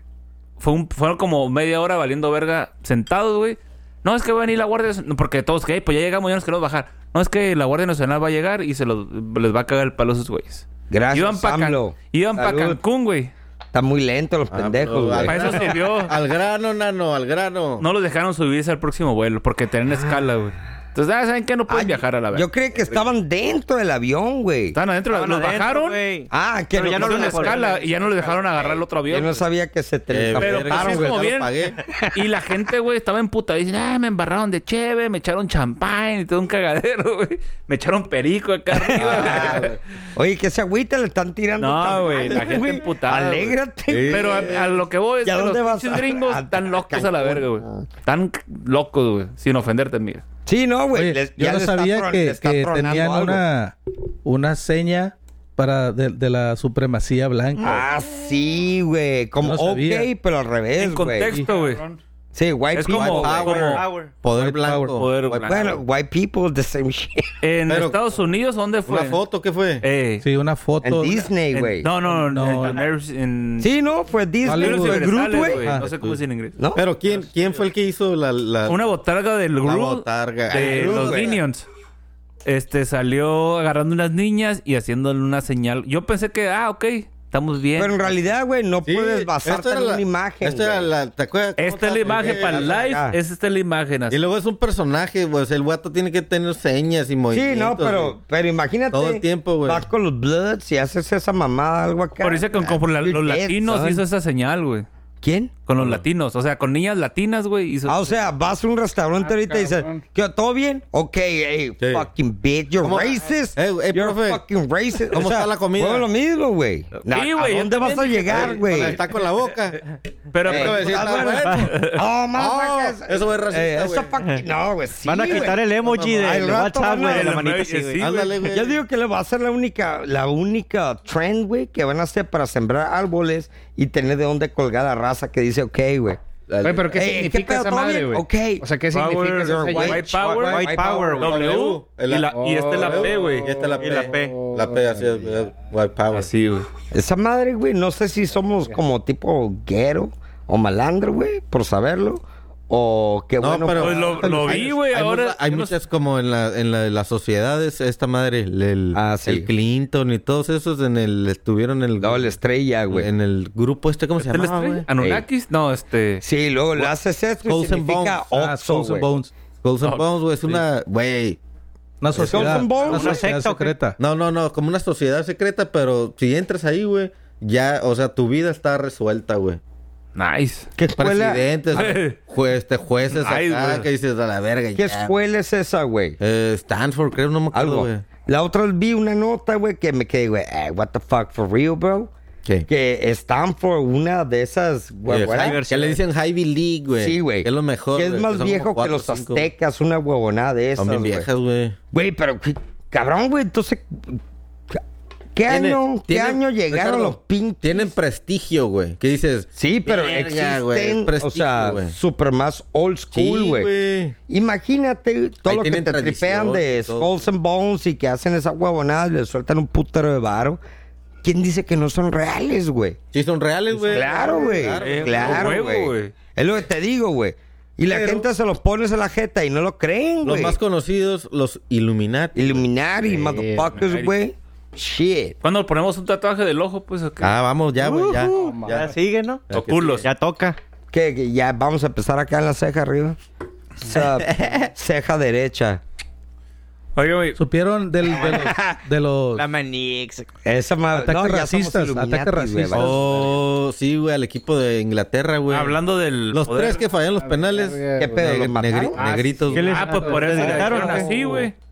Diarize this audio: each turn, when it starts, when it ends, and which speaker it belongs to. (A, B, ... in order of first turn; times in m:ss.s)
0:00.6-0:13.3 A
0:10.9-0:12.8 B
0:13.7-0:15.7 B
0:14.5-0:17.8 C
0:15.2-0:16.1 A
0:17.8-0:22.5 A
0:21.7-0:24.8 B
0:24.7-0:26.0 A
0:25.1-0:28.1 D
0:26.3-0:27.7 B
0:26.8-0:29.4 A
0:28.3-0:31.2 B
0:30.1-0:31.8 C
0:30.4-0:31.5 A
0:32.1-0:39.7 A
0:38.9-0:44.6 B
0:38.9-0:39.8 C
0:41.6-0:50.2 A
0:43.9-0:44.7 C
0:45.2-0:47.8 B
0:50.4-0:53.4 B
0:50.9-0:57.8 E
0:57.6-1:01.4 B
0:59.4-1:00.1 E
1:00.8-1:01.8 A
1:01.5-1:02.0 F
1:02.3-1:03.8 B
1:02.7-1:05.8 A
1:02.9-1:05.7 C
1:03.5-1:04.2 D
1:05.4-1:07.3 B
1:07.4-1:09.2 A
1:07.7-1:08.0 C
1:08.9-1:09.8 C
1:09.8-1:10.2 A
1:10.2-1:11.3 E
1:10.8-1:11.9 B
1:11.5-1:13.7 A
1:12.0-1:12.8 E
1:13.6-1:15.6 B
1:14.4-1:15.9 E
1:14.4-1:16.6 A
1:15.8-1:16.2 C
1:16.6-1:16.8 B
1:16.7-1:18.8 C
1:18.7-1:21.6 A
1:19.6-1:21.4 C
1:20.5-1:21.4 B
1:22.4-1:28.2 A
1:27.8-1:30.9 B
1:28.8-1:32.8 C
1:31.6-1:34.2 A
1:32.0-1:33.2 B
1:34.1-1:38.2 C
1:37.3-1:44.0 B
1:38.9-1:39.9 C
1:42.2-1:44.8 A
1:45.2-1:45.5 B
1:45.6-1:48.3 A
1:45.8-1:46.0 C
1:47.9-1:59.0 B
1:49.2-1:50.0 F
1:51.8-1:52.1 C
1:52.8-1:54.4 C
1:55.1-1:56.1 C
1:57.1-1:58.9 A
1:58.3-1:59.8 C
2:00.3-2:02.0 A
2:00.4-2:01.8 C
2:00.5-2:07.4 B
2:01.4-2:01.7 D
2:02.3-2:04.2 C
2:05.0-2:08.0 D
2:05.3-2:06.1 C
2:06.9-2:08.4 A
2:08.0-2:08.8 C
2:08.5-2:16.2 B
2:16.5-2:16.9 C
2:16.6-2:20.0 F
2:16.9-2:18.6 B
2:18.9-2:23.6 A
2:19.4-2:21.5 B
2:19.9-2:21.5 D
2:21.2-2:26.3 C
2:22.3-2:25.2 F
2:23.8-2:24.4 D
2:26.1-2:26.7 A
2:26.9-2:34.6 B
2:33.4-2:42.4 C
2:33.8-2:35.7 A
2:38.9-2:39.5 B
2:42.0-2:43.1 B
2:42.9-2:44.9 C
2:44.2-2:46.2 A
2:45.0-2:45.2 B
2:46.2-2:49.1 B
2:47.4-2:48.2 C
2:48.3-2:49.3 E
2:49.6-2:51.4 C
2:49.8-2:50.6 A
2:52.0-2:54.0 E
2:52.1-2:52.9 C
2:52.2-2:53.2 B
2:52.9-2:53.8 D
2:54.0-2:59.6 C
3:00.2-3:00.7 A
3:00.8-3:01.8 B
3:01.0-3:05.1 C
3:01.7-3:02.2 A
3:03.1-3:03.9 A
3:04.7-3:06.2 B
3:06.2-3:08.1 C
3:07.5-3:12.1 B
3:12.7-3:15.6 B
3:15.1-3:19.5 C
3:15.3-3:16.0 D
3:17.0-3:21.3 B
3:20.8-3:21.8 C
3:21.9-3:24.2 B
3:25.3-3:27.9 B
3:25.5-3:32.0 C
3:29.6-3:33.7 B
3:33.1-3:34.2 C
3:34.3-3:40.6 B
3:35.4-3:37.2 C
3:41.2-3:43.0 B
3:43.1-3:45.6 C
3:43.9-3:50.6 B
3:43.9-3:44.4 F
3:44.3-3:46.1 A
3:47.9-3:48.2 C
3:50.2-3:52.6 C
3:52.3-3:55.4 B
3:53.0-3:53.8 F
3:53.7-3:54.2 A
3:55.4-3:57.3 A
3:57.2-3:59.0 C
3:57.8-3:59.5 D
3:58.3-3:58.8 F
3:59.5-4:00.0 C
3:59.5-4:00.0 A
4:00.0-4:00.6 D
4:00.9-4:03.2 B
4:03.8-4:05.8 B
4:03.9-4:04.7 C
4:07.0-4:07.4 A
4:07.4-4:09.5 E
4:08.2-4:08.6 D
4:09.3-4:10.3 D
4:10.4-4:13.0 B
4:10.9-4:13.1 E
4:12.7-4:15.8 C
4:15.5-4:16.8 A
4:16.3-4:20.7 C
4:17.2-4:21.1 F
4:18.0-4:19.2 B
4:19.5-4:21.5 D
4:19.6-4:21.5 A
4:20.6-4:21.0 B